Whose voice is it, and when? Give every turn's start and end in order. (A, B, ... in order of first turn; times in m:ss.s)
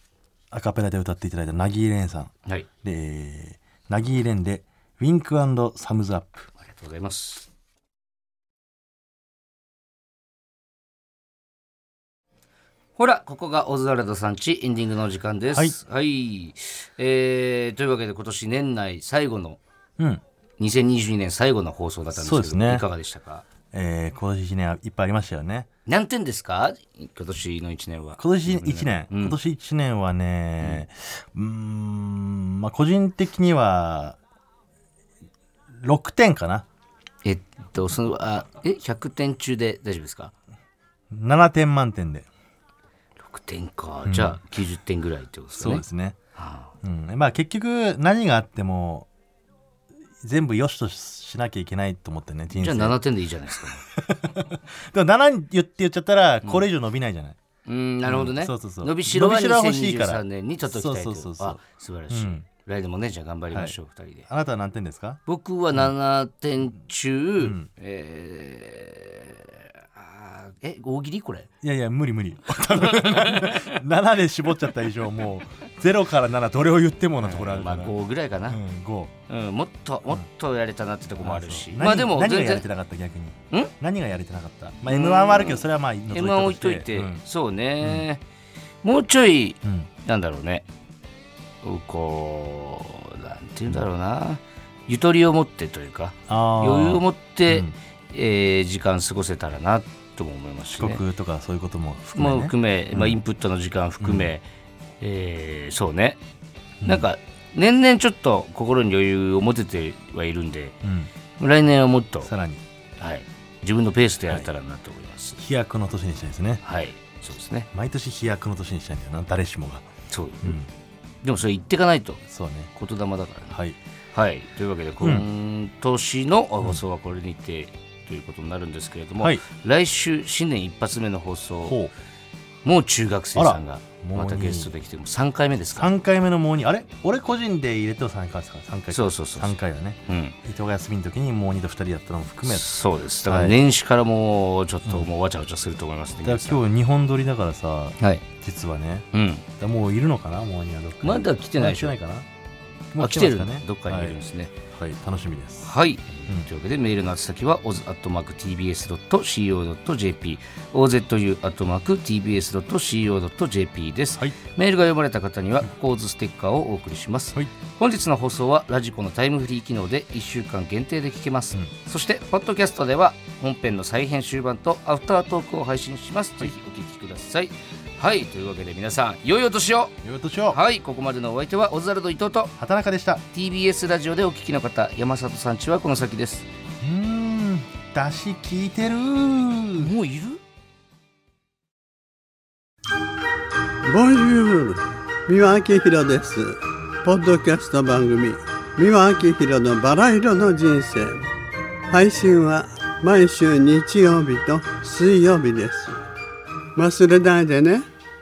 0:00.5-0:06.5 A
0:06.6-0:07.5 B
0:13.0-0:19.6 B
0:20.6-0:23.4 B
0:22.1-0:22.8 A
0:23.7-0:25.7 A
0:25.9-0:29.4 B
0:28.2-0:34.2 A
0:35.8-0:36.6 A
0:37.2-0:40.3 B
0:41.1-0:42.3 A
0:43.2-0:45.8 B
0:44.0-0:44.4 A
0:45.6-0:46.2 A
0:46.3-0:46.7 B
0:46.8-0:49.1 A
0:50.2-0:53.0 A
0:52.5-0:53.8 B
0:53.5-0:57.4 A
0:57.6-1:04.3 B
0:58.0-1:02.4 A
1:03.5-1:03.8 A
1:04.3-1:05.2 A
1:05.2-1:11.5 B
1:07.4-1:07.7 A
1:11.6-1:17.9 A
1:12.8-1:13.6 B
1:17.2-1:18.6 B
1:18.5-1:19.1 A
1:19.3-1:22.6 B
1:21.2-1:27.2 A
1:24.9-1:28.2 B
1:28.8-1:30.7 B
1:31.6-1:41.0 B
1:36.3-1:37.7 A
1:40.8-1:43.2 A
1:42.1-1:44.4 B
1:44.0-1:44.3 A
1:45.0-1:46.2 B
1:46.8-1:50.8 B
1:50.8-1:51.1 A
1:51.4-1:52.3 B
1:52.2-1:52.6 A
1:53.0-1:55.4 B
1:55.4-1:56.6 A
1:56.6-1:57.7 B
1:57.7-1:59.9 A
2:00.1-2:00.6 B
2:00.4-2:00.7 A
2:01.2-2:02.2 B
2:02.3-2:02.7 A
2:02.7-2:03.6 B
2:03.5-2:03.8 A
2:04.1-2:11.8 B
2:05.0-2:05.3 A
2:11.6-2:11.9 A
2:12.6-2:15.9 B
2:13.4-2:14.7 A
2:15.7-2:22.7 A
2:18.9-2:19.5 B
2:20.1-2:20.4 B
2:22.4-2:26.6 B
2:23.3-2:23.6 A
2:26.2-2:32.3 A
2:29.1-2:29.4 B
2:31.0-2:31.9 B
2:32.9-2:35.7 A
2:33.0-2:34.5 B
2:35.6-2:59.9 B
3:00.0-3:00.6 A
3:00.5-3:02.5 B
3:02.6-3:03.2 A
3:03.3-3:06.4 B
3:06.8-3:09.9 A
3:09.8-3:10.4 B
3:13.8-3:21.3 C
3:21.9-3:26.0 C
3:26.8-3:27.8 C